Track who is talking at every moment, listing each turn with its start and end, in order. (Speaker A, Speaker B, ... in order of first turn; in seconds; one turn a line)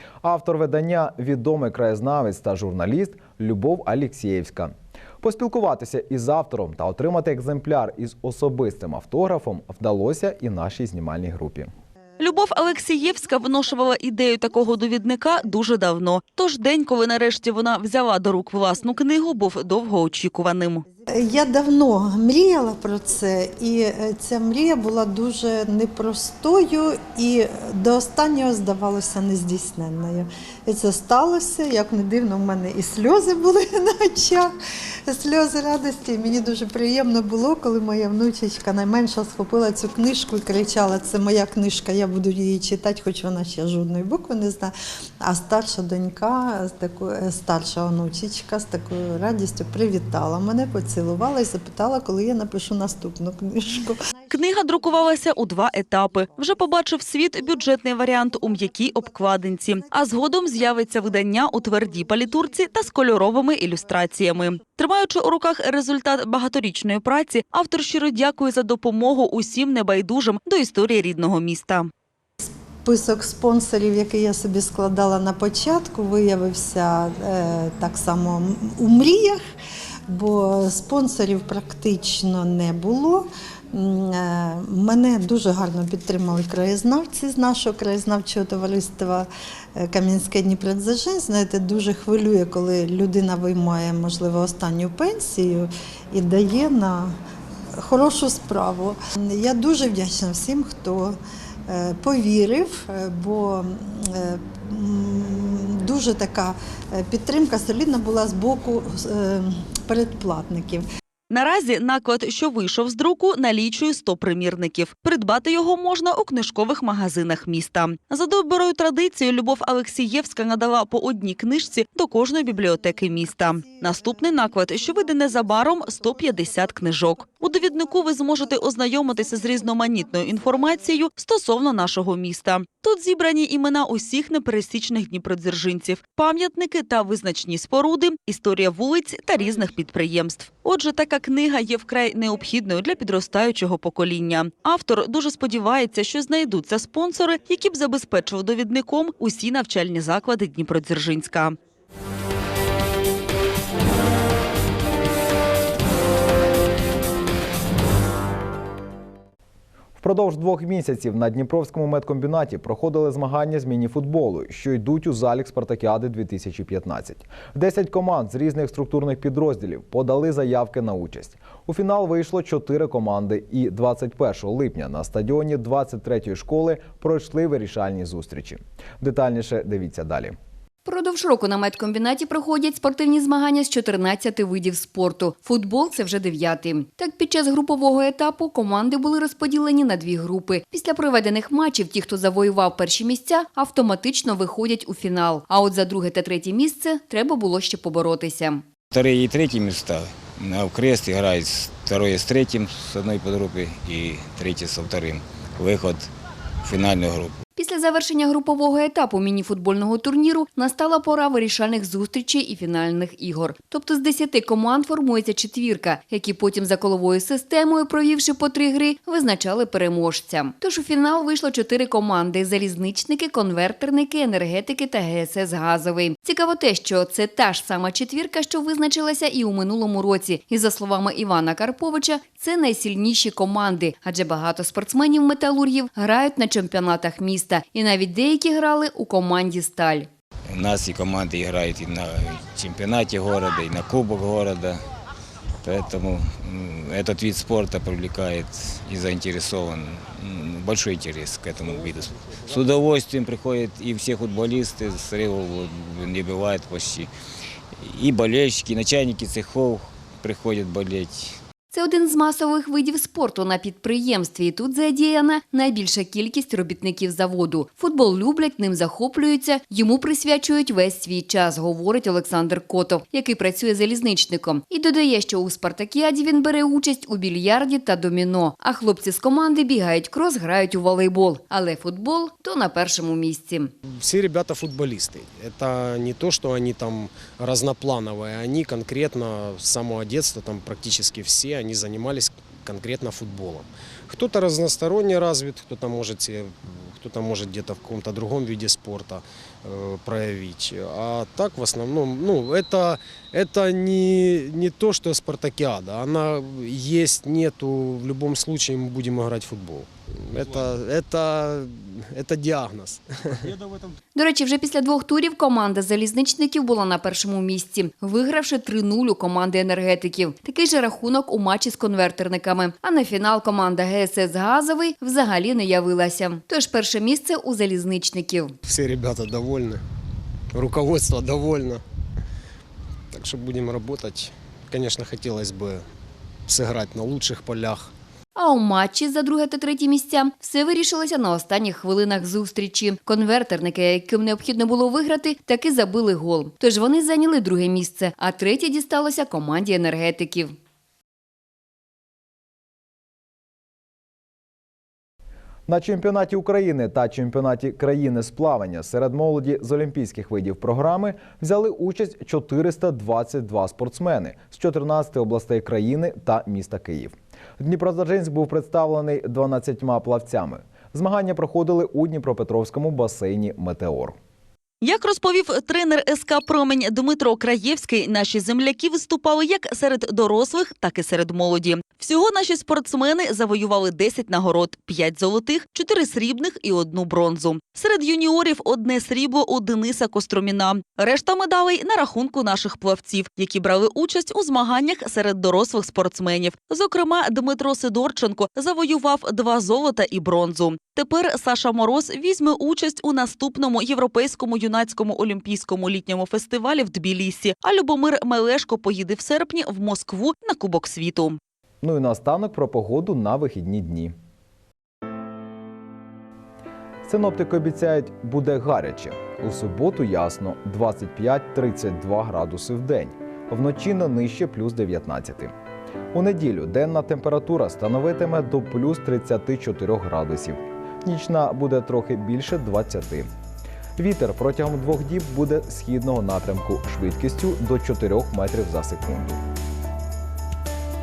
Speaker A: 0.2-11.7
Speaker B: 12.2-20.9
Speaker C: 21.1-34.5
Speaker C: 35.1-54.2
Speaker B: 54.3-71.9
Speaker C: 72.4-79.4
Speaker C: 80.1-97.2
Speaker C: 97.8-110.9
Speaker B: 111.3-151.6
Speaker A: 160.0-180.4
Speaker D: 180.8-198.6
Speaker E: 198.9-206.1
Speaker E: 206.7-207.3
Speaker D: 207.6-240.1
Speaker E: 240.5-244.8
Speaker E: 245.7-252.0
Speaker E: 252.5-257.1
Speaker E: 258.0-261.2
Speaker D: 261.7-283.7
Speaker F: 283.9-313.5
Speaker D: 314.2-328.6
Speaker F: 328.6-329.8
Speaker F: 330.5-331.8
Speaker F: 333.1-335.9
Speaker F: 336.5-337.9
Speaker D: 338.4-350.6
Speaker A: 355.7-374.2
Speaker B: 374.8-411.4
Speaker A: 411.8-414.1
Speaker A: 417.1-425.5
Speaker A: 426.1-433.3
Speaker A: 434.0-439.4